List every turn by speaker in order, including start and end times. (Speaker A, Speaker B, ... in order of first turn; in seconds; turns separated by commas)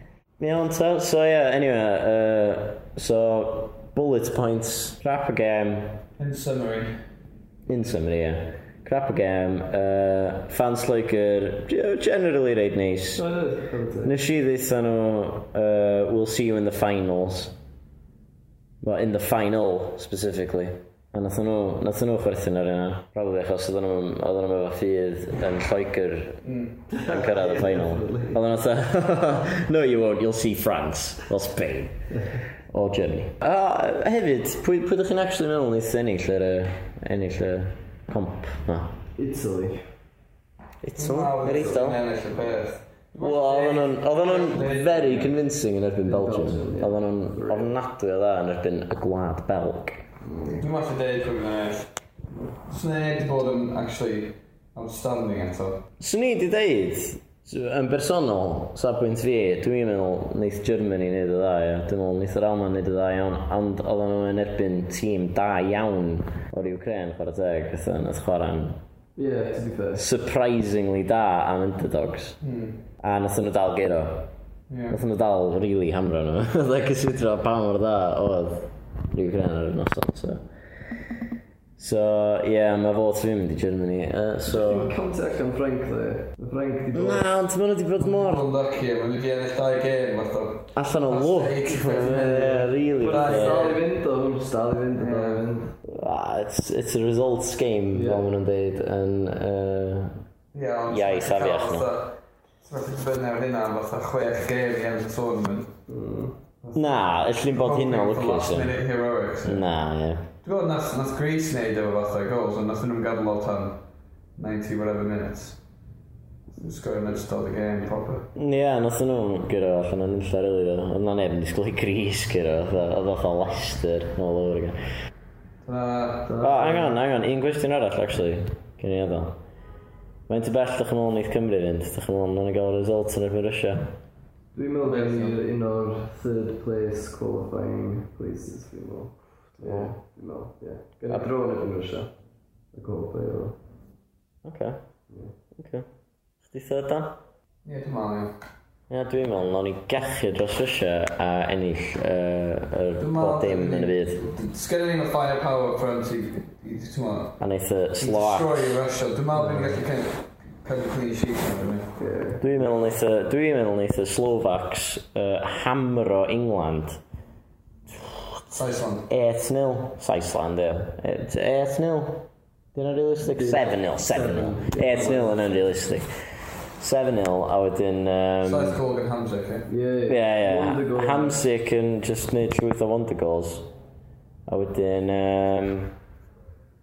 Speaker A: 0.4-6.0, Speaker B: 6.2-7.0, Speaker A: 7.7-13.3, Speaker C: 13.2-14.1, Speaker A: 14.0-17.5, Speaker A: 18.8-26.4, Speaker B: 26.4-26.8, Speaker A: 27.0-39.0, Speaker C: 39.2-39.8, Speaker A: 40.8-42.0, Speaker B: 41.0-45.4, Speaker A: 43.2-50.0, Speaker C: 46.1-47.7, Speaker C: 50.2-50.6, Speaker B: 50.6-51.9, Speaker B: 52.6-55.8, Speaker A: 56.0-68.8, Speaker C: 69.2-70.0, Speaker A: 70.0-72.4, Speaker B: 72.4-72.8, Speaker A: 73.0-74.3, Speaker B: 74.7-75.0, Speaker A: 74.9-80.4, Speaker A: 81.8-85.0, Speaker C: 84.5-87.2, Speaker A: 86.9-88.4, Speaker B: 88.0-93.9, Speaker A: 90.7-93.8, Speaker C: 93.4-95.7, Speaker B: 94.9-95.6, Speaker A: 95.9-100.2, Speaker B: 100.5-105.8, Speaker A: 100.9-101.9, Speaker C: 105.9-106.4, Speaker B: 106.6-109.7, Speaker A: 106.8-108.8, Speaker A: 109.4-110.3, Speaker B: 110.4-113.8, Speaker B: 114.4-115.6, Speaker B: 116.5-118.2, Speaker A: 118.3-124.8, Speaker B: 125.6-126.6, Speaker A: 126.4-129.3, Speaker A: 130.3-133.9, Speaker C: 134.5-142.1, Speaker B: 134.8-135.4, Speaker A: 139.6-140.0, Speaker A: 141.1-141.4, Speaker C: 142.7-143.6, Speaker A: 144.4-144.8, Speaker A: 145.6-145.9, Speaker A: 146.4-147.2, Speaker B: 147.7-148.3, Speaker A: 148.9-154.2, Speaker B: 153.0-157.4, Speaker A: 157.4-158.8, Speaker B: 158.0-162.0, Speaker C: 162.0-162.4, Speaker A: 162.4-167.0, Speaker A: 167.9-176.1, Speaker B: 168.5-169.1, Speaker C: 173.4-175.1, Speaker A: 176.8-178.8, Speaker B: 178.4-179.7, Speaker C: 179.7-181.3, Speaker A: 180.1-183.7, Speaker A: 184.5-185.9